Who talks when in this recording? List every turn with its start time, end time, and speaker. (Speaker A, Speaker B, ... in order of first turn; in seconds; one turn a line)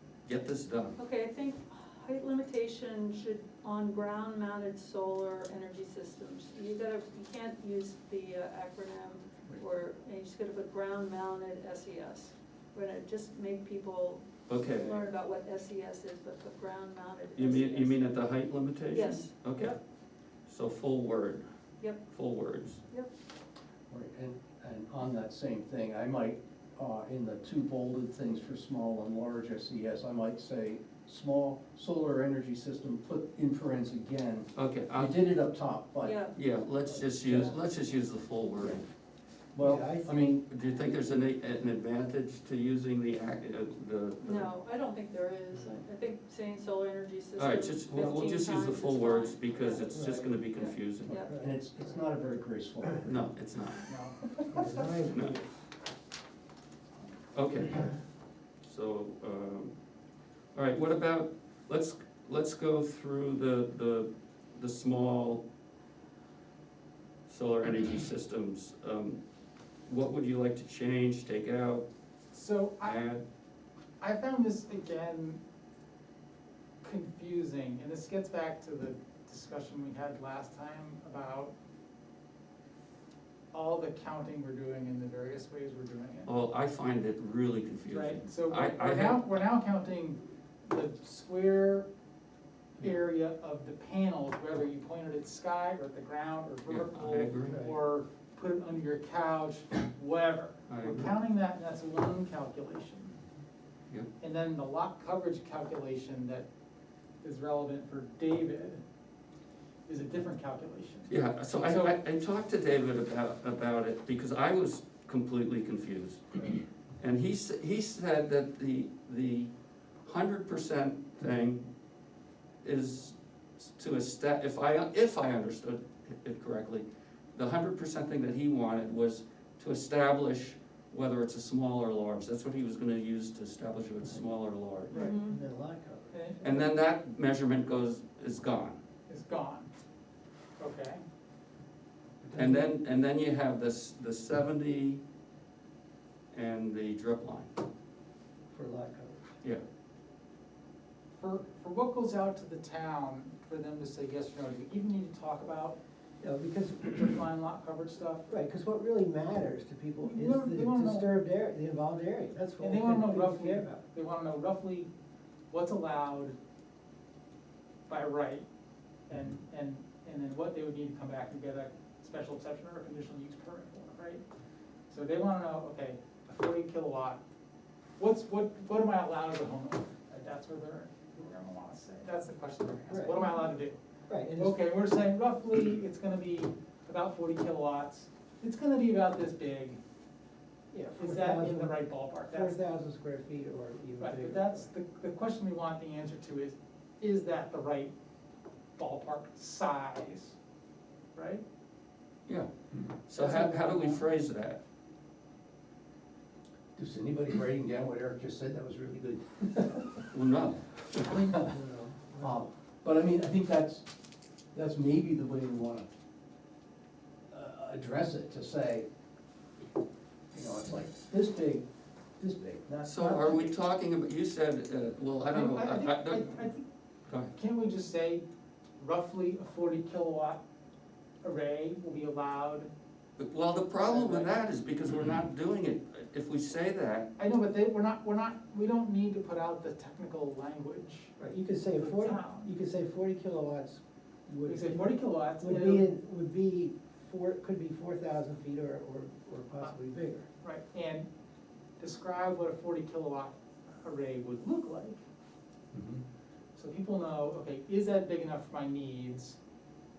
Speaker A: 0.2-1.0
Speaker B: 1.0-18.2
Speaker A: 14.5-15.1
Speaker A: 17.4-19.8
Speaker B: 18.9-19.7
Speaker A: 20.5-21.4
Speaker B: 21.8-22.1
Speaker A: 22.1-22.8
Speaker C: 23.9-34.5
Speaker D: 24.0-24.5
Speaker D: 25.8-26.2
Speaker D: 28.3-29.0
Speaker A: 34.5-35.1
Speaker C: 35.0-36.1
Speaker D: 35.3-36.1
Speaker B: 36.0-36.3
Speaker A: 36.4-38.8
Speaker D: 37.2-37.5
Speaker C: 39.5-40.4
Speaker D: 39.6-40.4
Speaker A: 40.4-44.5
Speaker B: 44.2-51.3
Speaker A: 47.4-51.1
Speaker D: 49.9-50.4
Speaker C: 51.1-53.1
Speaker D: 51.3-53.0
Speaker A: 53.1-53.9
Speaker E: 53.9-55.0
Speaker D: 54.5-55.5
Speaker A: 55.1-55.4
Speaker A: 57.3-57.9
Speaker A: 58.6-59.8
Speaker A: 60.5-65.4
Speaker A: 67.3-69.2
Speaker A: 69.9-71.8
Speaker E: 72.3-73.0
Speaker A: 72.8-73.2
Speaker E: 74.0-75.4
Speaker E: 76.8-81.5
Speaker E: 83.5-86.3
Speaker A: 86.3-89.2
Speaker E: 87.9-91.9
Speaker E: 92.8-103.2
Speaker A: 96.7-97.6
Speaker D: 97.5-97.8
Speaker A: 100.7-101.1
Speaker E: 104.2-106.5
Speaker E: 107.2-108.8
Speaker E: 109.9-112.0
Speaker A: 111.1-119.5
Speaker A: 120.0-121.7
Speaker A: 122.6-135.0
Speaker E: 134.9-135.3
Speaker B: 134.9-135.4
Speaker D: 134.9-136.3
Speaker E: 136.1-136.7
Speaker A: 136.4-138.8
Speaker E: 139.1-139.7
Speaker E: 140.6-141.0
Speaker D: 142.2-142.7
Speaker A: 142.3-145.0
Speaker A: 146.3-147.5
Speaker D: 148.5-149.3
Speaker E: 151.2-155.8
Speaker D: 156.2-157.0
Speaker E: 156.9-158.3
Speaker D: 158.3-163.8
Speaker E: 160.0-161.1
Speaker E: 162.6-164.9
Speaker E: 165.5-166.3
Speaker E: 167.9-168.4
Speaker E: 169.1-174.2
Speaker E: 174.9-177.2
Speaker E: 178.0-183.8
Speaker D: 182.9-183.4
Speaker D: 184.1-184.6
Speaker E: 184.4-189.8
Speaker D: 190.7-194.7
Speaker E: 191.0-192.6
Speaker E: 194.0-197.9
Speaker E: 198.8-200.4
Speaker E: 201.2-201.4
Speaker A: 203.1-204.6
Speaker E: 203.2-204.0
Speaker C: 206.8-210.1
Speaker A: 210.1-211.2
Speaker D: 211.1-212.5
Speaker C: 212.2-213.8
Speaker C: 214.6-215.9
Speaker C: 217.3-218.8
Speaker C: 220.3-221.6
Speaker C: 222.2-222.8
Speaker D: 222.3-223.4
Speaker A: 222.8-226.4
Speaker E: 225.3-226.7
Speaker A: 227.1-227.3
Speaker E: 227.3-228.2
Speaker E: 228.8-230.4
Speaker E: 231.2-232.7
Speaker A: 233.2-237.1
Speaker E: 233.9-234.3
Speaker E: 237.2-241.1
Speaker D: 241.2-250.3
Speaker E: 241.8-242.5
Speaker E: 244.5-245.9
Speaker E: 250.4-251.1
Speaker E: 251.8-255.0
Speaker C: 255.7-256.0
Speaker E: 256.6-259.4